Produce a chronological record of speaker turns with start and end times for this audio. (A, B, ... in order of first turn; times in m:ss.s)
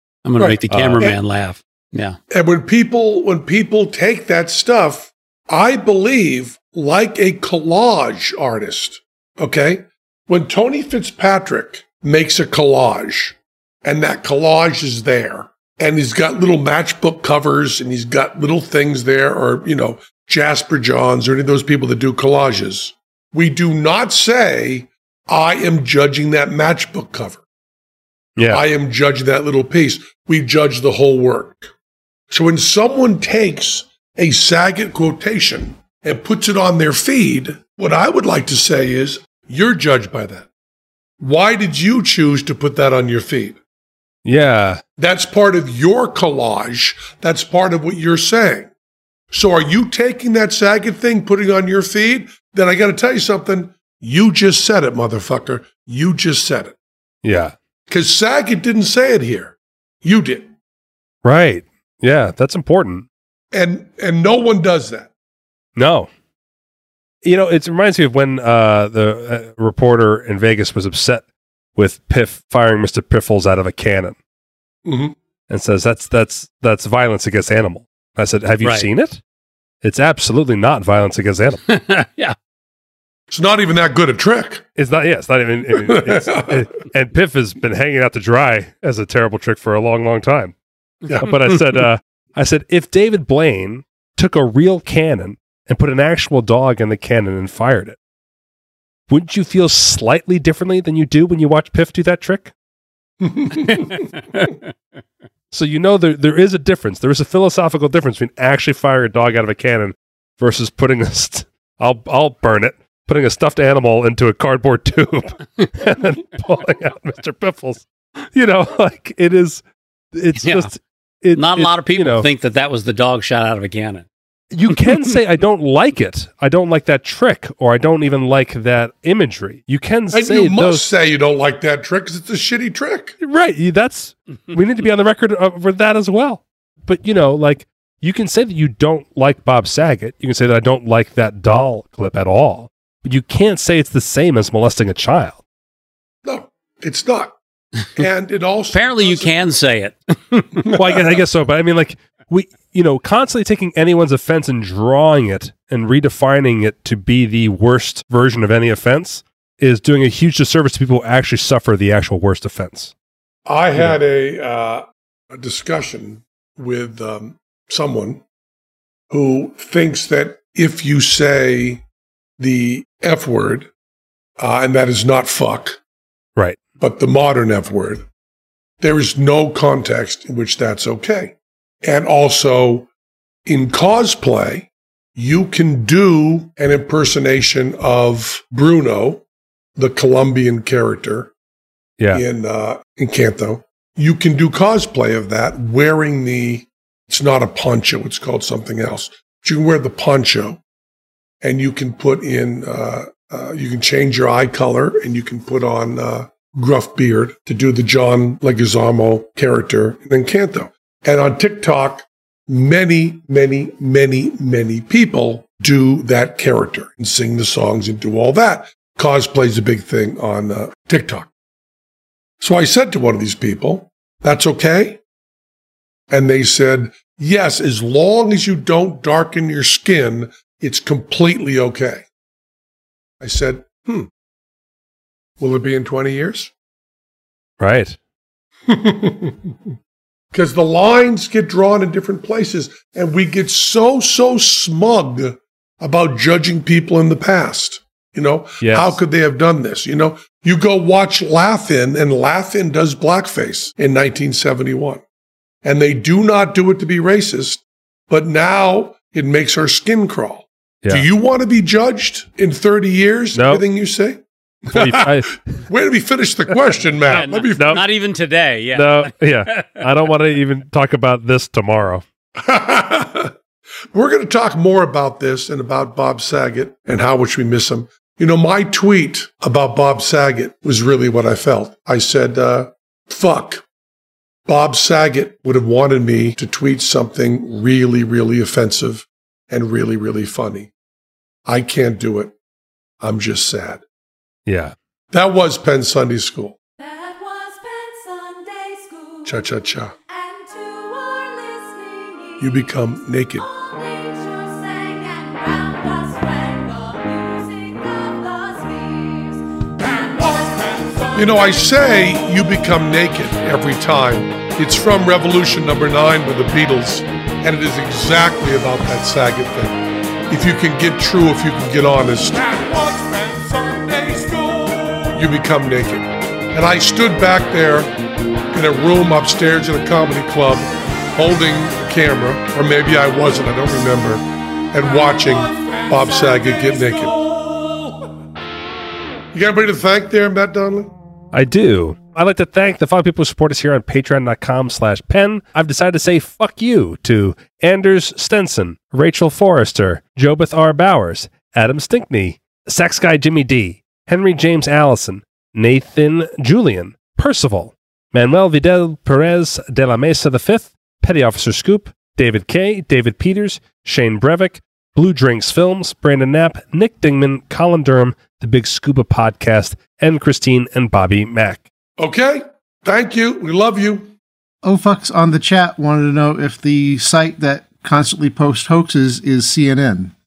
0:00.2-0:02.2 A
0:00.4-0:01.2 B
0:00.7-0:01.2 C
0:02.3-0:27.4 B
0:28.4-0:28.6 C
0:28.5-0:31.7 B
0:32.3-0:40.5 B
0:41.2-0:43.6 B
0:44.2-0:44.8 C
0:45.0-0:48.7 B
0:49.3-0:56.8 B
0:57.2-0:57.5 C
0:57.9-1:00.5 B
1:01.2-1:03.0 C
1:03.5-1:05.1 B
1:05.8-1:06.1 C
1:07.2-1:11.2 C
1:11.8-1:14.1 C
1:14.8-1:15.1 B
1:15.5-1:19.2 C
1:18.6-1:18.9 A
1:19.8-1:21.6 C
1:21.7-1:22.3 A
1:23.3-1:24.6 B
1:24.8-1:30.5 C
1:25.8-1:26.7 B
1:31.2-1:38.0 C
1:31.2-1:31.5 A
1:39.1-1:42.5 C
1:43.2-1:43.9 B
1:45.5-2:02.3 C
2:00.4-2:00.7 A
2:01.3-2:04.1 A
2:04.5-2:10.9 C
2:04.7-2:05.0 A
2:10.1-2:13.2 B
2:13.2-2:25.4 C
2:26.2-2:27.4 B
2:27.9-2:29.3 B
2:28.7-2:30.7 A
2:30.6-2:31.0 B
2:30.7-2:42.9 C
2:43.4-2:48.2 B
2:49.1-2:51.8 B
2:52.4-2:53.7 B
2:54.4-2:55.8 B
2:56.8-2:58.0 B
2:58.8-3:02.9 B
3:03.4-3:09.2 B
3:09.8-3:11.3 B
3:12.1-3:20.6 B
3:21.4-3:41.3 B
3:42.4-3:45.0 B
3:46.1-3:52.0 B
3:53.2-3:54.1 B
3:55.4-3:56.5 B
3:57.6-3:58.0 C
3:58.7-3:59.5 B
4:00.3-4:15.0 B
4:08.6-4:09.0 C
4:15.6-4:27.8 B
4:23.3-4:23.6 C
4:24.7-4:25.4 C
4:27.1-4:29.8 A
4:27.3-4:27.8 C
4:28.7-4:32.0 C
4:32.4-4:33.3 B
4:33.9-4:43.6 B
4:44.4-4:50.7 B
4:51.4-4:52.3 B
4:53.0-4:53.8 B
4:54.4-4:54.7 C
4:55.1-4:56.6 B
4:56.8-4:59.5 D
4:59.2-4:59.9 B
5:00.1-5:11.4 D
5:02.4-5:03.5 B
5:11.1-5:24.5 B
5:25.1-5:27.9 B
5:28.5-5:37.3 B
5:39.3-5:40.9 B
5:41.3-6:11.7 C
6:12.0-6:14.1 B
6:14.6-6:20.1 E